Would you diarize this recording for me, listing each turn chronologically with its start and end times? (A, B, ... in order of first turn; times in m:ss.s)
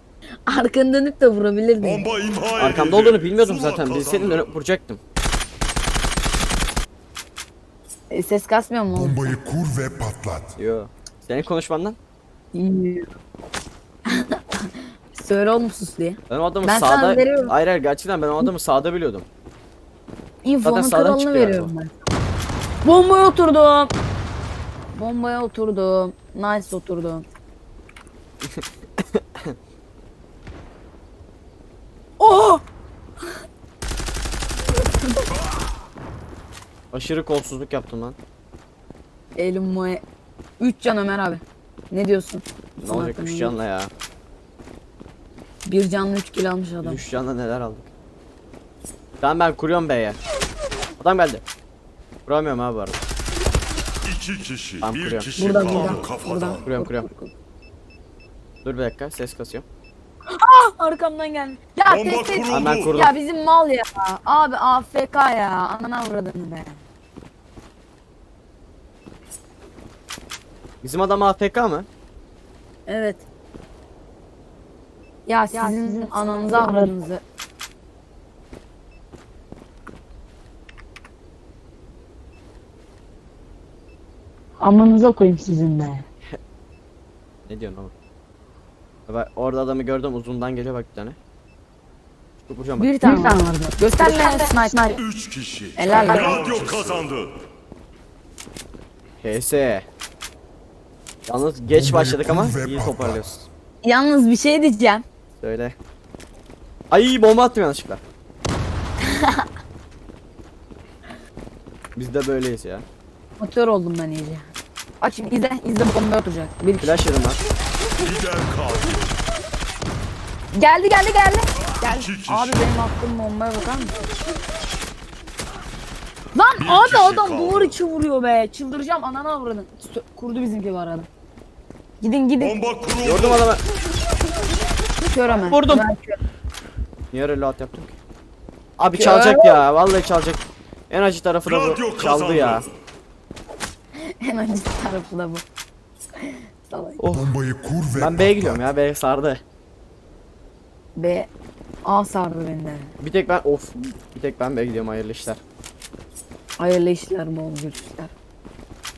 0:00.5-0:02.1 A
0:01.8-0:04.6 B
0:02.6-0:05.0 C
0:08.1-0:09.3 A
0:08.9-0:10.5 D
0:10.6-0:12.0 C
0:12.5-0:13.0 A
0:14.1-0:17.5 A
0:16.3-0:19.3 C
0:20.4-0:21.9 A
0:20.6-0:21.7 C
0:22.8-0:23.9 A
0:24.9-0:27.3 A
0:29.1-0:29.6 C
0:32.2-0:32.6 A
0:34.8-0:35.2 A
0:36.9-0:38.2 C
0:39.4-0:40.0 A
0:40.6-0:43.5 A
0:42.8-0:43.9 C
0:45.6-0:47.0 A
0:46.8-0:47.9 C
0:49.2-0:50.2 C
0:51.0-0:51.4 C
0:52.3-0:53.0 C
0:54.0-0:56.7 B
0:54.8-0:56.1 C
0:55.4-0:57.3 A
0:56.7-0:57.1 C
0:58.6-0:59.6 C
1:00.4-1:06.8 A
1:01.8-1:03.0 B
1:02.5-1:03.1 C
1:10.8-1:11.9 C
1:12.9-1:13.3 A
1:15.3-1:17.2 A
1:15.5-1:16.9 E
1:24.6-1:26.0 E
1:27.5-1:27.9 C
1:29.1-1:31.2 C
1:32.4-1:32.9 C
1:32.8-1:34.9 A
1:33.0-1:35.0 E
1:35.0-1:37.3 B
1:35.8-1:36.3 A
1:35.9-1:37.0 C
1:39.2-1:39.9 C
1:41.3-1:43.5 C
1:41.7-1:43.2 D
1:43.8-1:45.0 A
1:45.4-1:45.8 C
1:46.9-1:48.0 C
1:52.0-1:52.9 C
1:53.4-1:54.5 A
1:55.0-1:57.0 A
1:56.8-1:57.4 C
1:58.0-1:59.2 B
2:00.5-2:04.0 A
2:01.8-2:02.6 B
2:06.3-2:11.1 A
2:06.6-2:07.8 B
2:12.0-2:12.6 A
2:12.4-2:13.4 B
2:13.0-2:13.6 C
2:15.1-2:16.2 A
2:15.4-2:15.8 C
2:17.1-2:18.0 C
2:18.8-2:22.6 C
2:18.9-2:19.6 A
2:21.4-2:22.6 B
2:24.2-2:25.4 A
2:26.2-2:27.0 A
2:27.0-2:27.3 C
2:27.1-2:28.6 D
2:27.9-2:29.4 C
2:31.0-2:31.3 A
2:31.8-2:32.9 A
2:33.0-2:35.4 C
2:36.6-2:38.1 A